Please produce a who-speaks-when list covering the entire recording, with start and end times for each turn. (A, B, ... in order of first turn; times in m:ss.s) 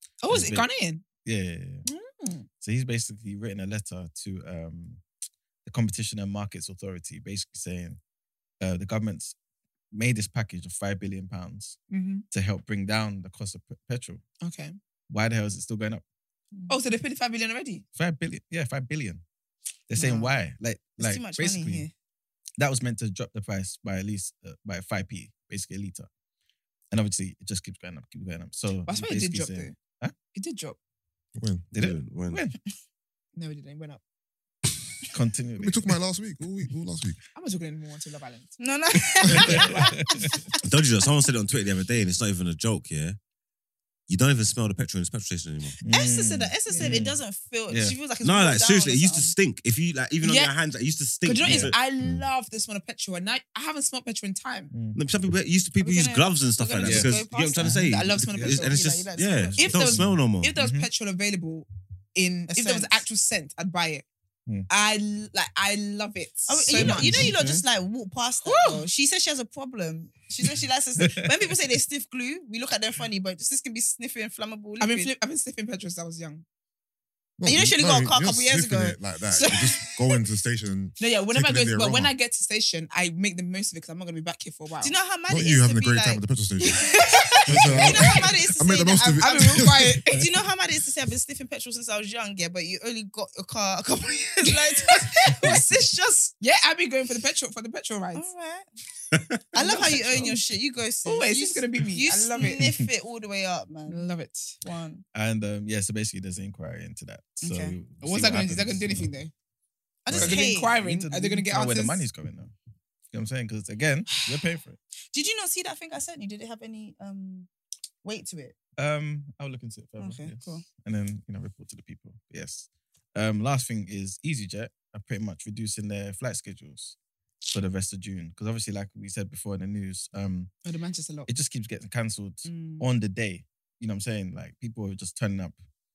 0:00.2-0:01.0 A
0:00.3-0:00.7 B
0:01.2-0:01.9 B
0:01.9-0:02.5 A
0:02.6-0:05.0 B
0:05.6-0:08.0 B
0:08.6-0:09.4 B
0:09.9-0:11.8 B
0:11.9-0:12.2 A
0:12.3-0:14.2 B
0:14.4-0:14.8 A
0:15.1-0:16.0 B
0:16.7-0:17.8 A
0:18.0-0:19.2 B
0:19.9-0:21.9 B
0:20.0-0:20.2 C
0:21.0-0:21.9 C
0:22.6-0:26.1 B
0:26.9-0:30.2 B
0:28.9-0:29.8 A
0:30.3-0:30.8 A
0:31.4-0:31.7 D
0:31.7-0:32.6 B
0:31.8-0:32.4 E
0:33.4-0:34.0 A
0:35.1-0:35.9 B
0:35.6-0:37.2 D
0:37.4-0:38.6 A
0:38.6-0:40.1 C
0:39.3-0:39.9 A
0:39.3-0:40.4 B
0:40.6-0:43.2 E
0:44.1-0:45.8 E
0:45.8-0:48.0 B
0:45.9-0:49.4 C
0:46.7-0:47.0 A
0:48.2-0:51.8 E
0:50.2-0:50.5 A
0:51.2-0:54.7 A
0:51.4-0:51.7 B
0:52.0-0:52.2 D
0:54.7-0:55.0 B
0:55.0-1:00.5 E
0:55.8-0:59.9 C
0:56.8-0:57.8 B
0:57.7-0:58.8 A
0:58.4-0:58.7 B
0:59.6-1:04.0 A
0:59.9-1:00.9 B
1:02.5-1:03.0 C
1:04.7-1:07.3 A
1:06.5-1:15.1 C
1:06.8-1:07.2 B
1:07.0-1:07.6 E
1:08.4-1:08.9 A
1:11.0-1:11.6 B
1:14.8-1:16.4 A
1:17.4-1:22.1 D
1:17.4-1:20.2 C
1:21.0-1:24.9 A
1:24.8-1:26.2 C
1:25.3-1:26.9 D
1:26.6-1:27.4 A
1:26.8-1:36.3 C
1:27.5-1:30.0 D
1:27.5-1:27.9 B
1:29.2-1:30.2 A
1:34.4-1:35.6 A
1:36.4-1:38.3 A
1:38.2-1:38.7 C
1:39.1-1:39.4 E
1:39.5-1:44.1 C
1:39.6-1:40.4 A
1:41.0-1:42.6 A
1:42.4-1:42.9 B
1:43.9-1:44.6 A
1:44.6-1:45.0 C
1:45.1-1:49.1 B
1:47.4-1:47.8 C
1:48.0-1:49.3 A
1:50.0-1:50.7 C
1:50.1-1:52.0 A
1:50.1-1:52.5 B
1:53.1-1:54.8 B
1:55.1-1:57.5 C
1:58.0-1:58.6 C
1:58.8-2:07.0 B
2:00.0-2:00.6 C
2:07.5-2:10.5 B
2:10.6-2:11.3 A
2:11.3-2:15.6 B
2:12.4-2:12.9 A